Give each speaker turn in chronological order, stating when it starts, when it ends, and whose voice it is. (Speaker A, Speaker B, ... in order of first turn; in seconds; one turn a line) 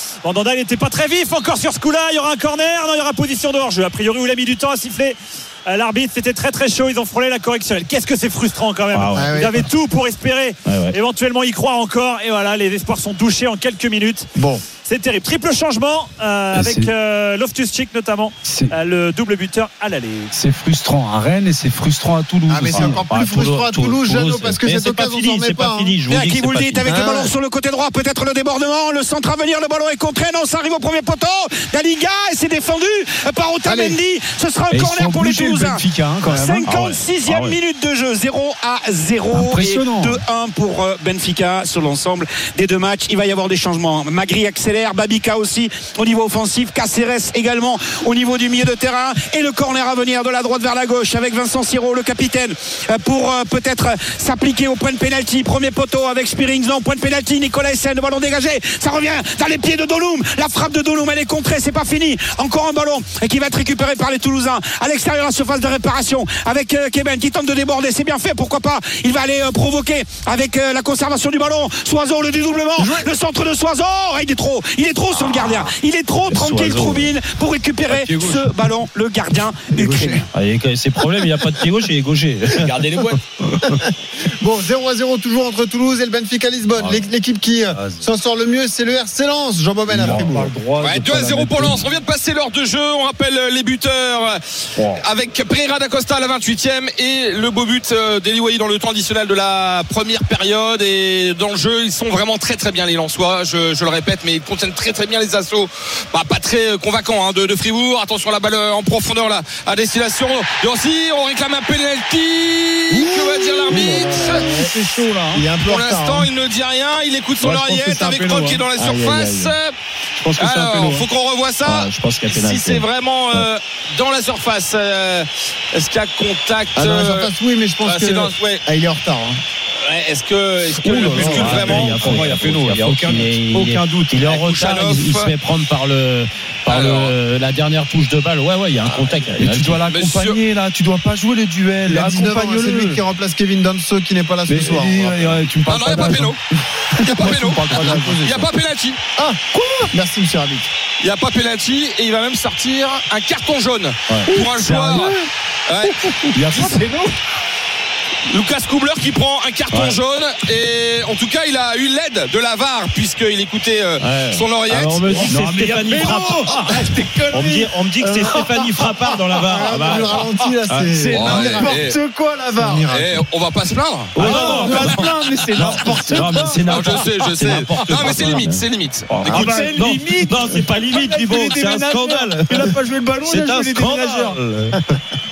Speaker A: 0.2-14.3
Speaker B: 8.9-9.7
Speaker C: 9.2-9.7
Speaker B: 10.7-10.9
Speaker C: 14.4-14.6
Speaker A: 14.8-20.3
Speaker D: 16.5-16.9
Speaker D: 18.4-18.7
Speaker D: 20.3-23.0
Speaker C: 22.5-26.0
Speaker B: 22.7-27.0
Speaker E: 26.1-80.3
Speaker C: 26.8-27.3
Speaker C: 33.6-34.0
Speaker D: 34.7-37.5
Speaker C: 36.2-36.7
Speaker B: 36.7-37.5
Speaker D: 39.3-40.2
Speaker B: 76.3-77.1
Speaker D: 77.9-78.6
Speaker C: 79.7-80.2
Speaker B: 80.3-82.8
Speaker D: 82.6-83.2
Speaker C: 83.7-90.5
Speaker D: 87.7-88.0
Speaker D: 89.9-91.8
Speaker F: 90.8-94.4
Speaker D: 94.8-95.0
Speaker F: 95.0-114.7
Speaker C: 112.9-116.3
Speaker D: 113.7-115.5
Speaker F: 115.6-119.7
Speaker C: 117.4-119.5
Speaker C: 120.2-121.0
Speaker F: 120.4-127.3
Speaker B: 121.6-122.9
Speaker C: 126.8-129.4
Speaker F: 127.8-128.6
Speaker F: 129.8-132.2
Speaker D: 130.8-134.3
Speaker C: 131.1-131.6
Speaker B: 131.1-139.8
Speaker F: 134.2-135.3
Speaker F: 136.7-137.2
Speaker D: 139.3-143.0
Speaker F: 139.9-140.4
Speaker C: 141.9-145.4
Speaker D: 144.5-146.4
Speaker F: 145.7-146.4
Speaker D: 146.9-148.5
Speaker F: 147.0-149.0
Speaker C: 147.7-148.3
Speaker C: 149.2-150.7
Speaker F: 151.0-155.2
Speaker D: 154.3-155.3
Speaker F: 155.7-156.8
Speaker D: 156.3-157.1
Speaker F: 158.3-165.4
Speaker B: 164.0-166.8
Speaker D: 165.0-168.8
Speaker B: 167.3-170.3
Speaker C: 169.4-173.2
Speaker D: 170.2-172.8
Speaker B: 171.1-171.5
Speaker F: 171.1-172.0
Speaker F: 172.8-174.4
Speaker B: 174.1-184.5
Speaker D: 174.2-177.1
Speaker C: 174.4-175.0
Speaker F: 176.7-179.7
Speaker D: 177.8-178.3
Speaker D: 179.2-184.8